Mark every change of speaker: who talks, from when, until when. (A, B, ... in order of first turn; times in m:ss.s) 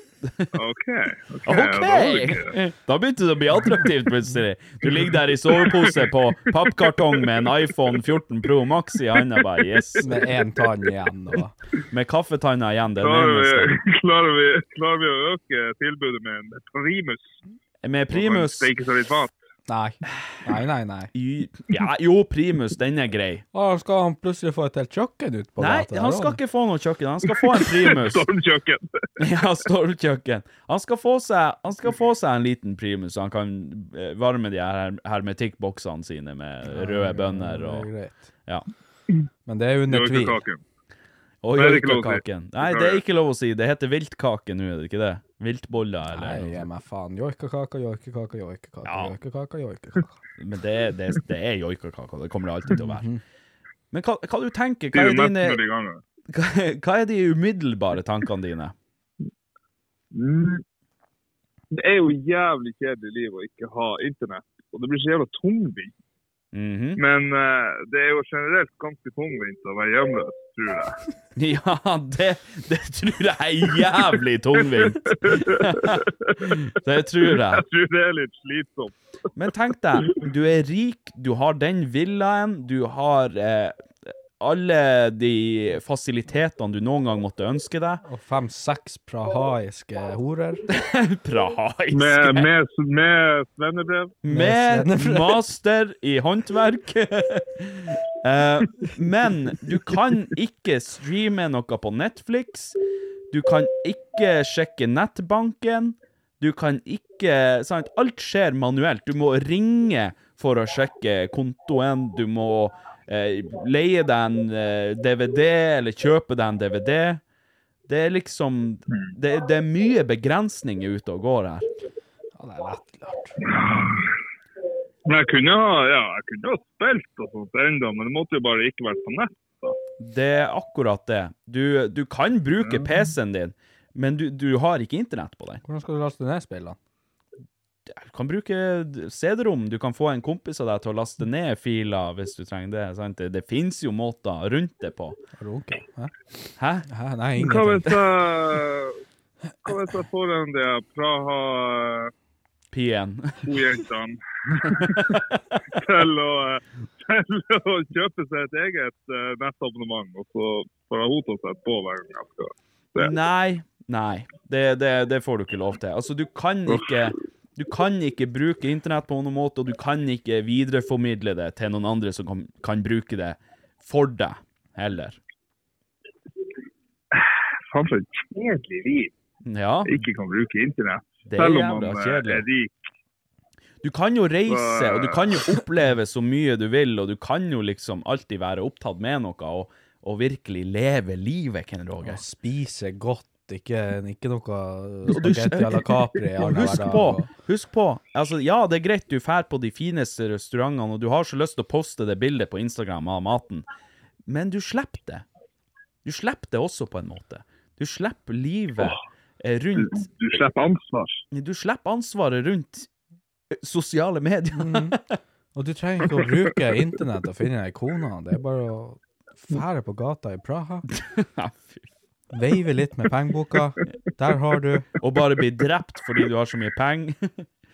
0:00.2-0:00.5 A
0:00.6-0:02.5 B
0:01.4-0:10.2 A
0:05.5-0:06.0 B
0:10.0-0:11.5 C
0:11.9-0:13.8 A
0:13.0-0:17.4 B
0:17.8-0:18.7 A
0:18.1-0:19.3 B
0:19.7-0:21.1 C
0:21.1-0:23.4 A
0:23.5-0:26.4 C
0:25.6-0:28.3 A
0:27.3-0:29.0 B
0:29.2-0:37.9 A
0:36.7-0:38.3 C
0:39.4-0:40.4 C
0:39.9-0:40.6 B
0:41.4-0:46.7 A
0:41.6-0:43.0 B
0:46.1-0:50.2 C
0:48.8-0:49.2 A
0:50.4-0:53.1 A
0:52.8-0:53.2 C
0:53.9-0:55.6 A
0:54.9-0:56.0 B
0:56.3-0:58.8 A
1:00.1-1:00.6 B
1:01.7-1:05.9 B
1:06.5-1:07.0 A
1:07.0-1:11.0 B
1:11.4-1:17.6 A
1:14.6-1:16.6 B
1:17.2-1:18.9 B
1:19.4-1:28.0 A
1:28.0-1:30.6 C
1:30.7-1:32.5 A
1:31.9-1:34.2 B
1:34.2-1:42.8 A
1:34.3-1:35.4 C
1:43.3-1:57.2 A
1:57.9-2:01.7 A
2:02.4-2:03.4 C
2:03.5-2:04.1 B
2:05.1-2:09.8 B
2:10.0-2:15.6 A
2:12.7-2:13.0 B
2:15.6-2:16.8 C
2:17.9-2:25.2 A
2:25.4-2:26.1 C
2:26.6-2:26.9 A
2:26.9-2:28.0 C
2:27.4-2:29.0 B
2:29.6-2:32.1 B
2:32.7-2:33.5 A
2:33.4-2:35.2 B
2:34.8-2:35.2 A
2:35.8-2:43.1 B
2:43.0-2:55.2 A
2:57.1-2:59.1 B
2:59.4-3:00.0 A
2:59.9-3:02.7 B
3:01.3-3:02.5 A
3:03.8-3:12.2 A
3:04.5-3:05.6 B
3:12.0-3:17.3 C
3:15.1-3:23.7 A
3:24.3-3:25.2 A
3:26.0-3:30.1 A
3:29.8-3:31.2 B
3:31.3-3:32.9 A
3:33.5-3:35.2 A
3:34.6-3:35.0 C
3:35.5-3:40.9 C
3:40.9-3:41.9 A
3:42.3-3:44.9 C
3:45.0-3:47.4 A